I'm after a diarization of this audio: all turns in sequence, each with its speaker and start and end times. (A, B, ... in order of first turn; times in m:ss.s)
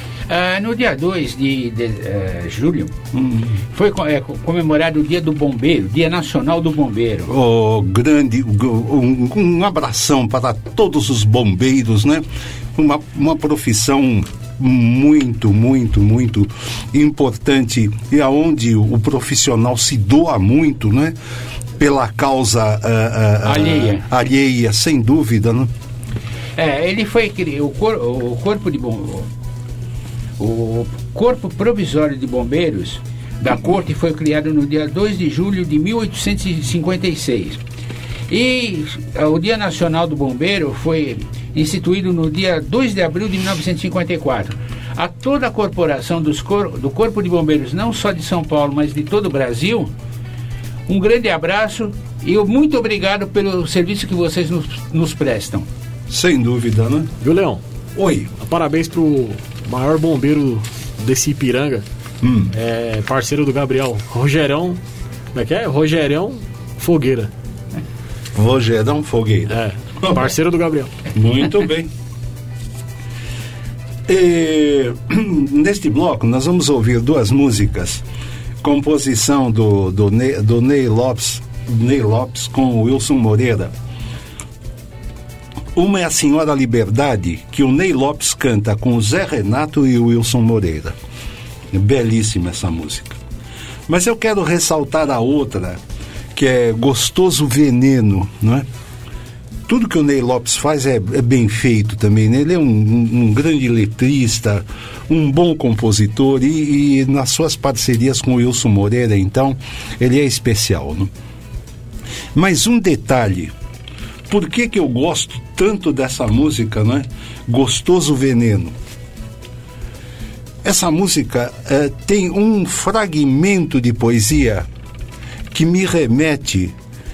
0:00.3-0:02.9 A
0:03.1-0:03.6 B
0:03.7-0:07.3 A
0:07.3-0:12.2 B
0:12.8-0:21.2 B
0:21.8-0:25.7 B
0:23.4-0:24.0 A
0:26.6-0:29.3 A
0:30.4-0:37.6 A
0:38.3-0:49.9 A
0:50.9-0:55.7 A
0:56.1-0:57.1 B
0:57.2-0:57.6 C
0:58.0-0:58.3 B
0:58.4-1:01.8 C
1:02.2-1:02.5 B
1:02.5-1:04.8 C
1:05.3-1:07.3 C
1:08.4-1:10.3 B
1:09.5-1:10.9 C
1:11.1-1:11.9 B
1:14.1-1:18.0 B
1:18.6-1:23.7 B
1:25.8-1:31.0 B
1:31.7-1:33.2 B
1:33.9-1:35.8 B
1:36.4-1:38.7 B
1:39.7-1:51.1 B
1:52.4-1:53.5 B
1:54.3-1:58.7 B
2:00.6-2:04.7 B
2:05.5-2:06.8 B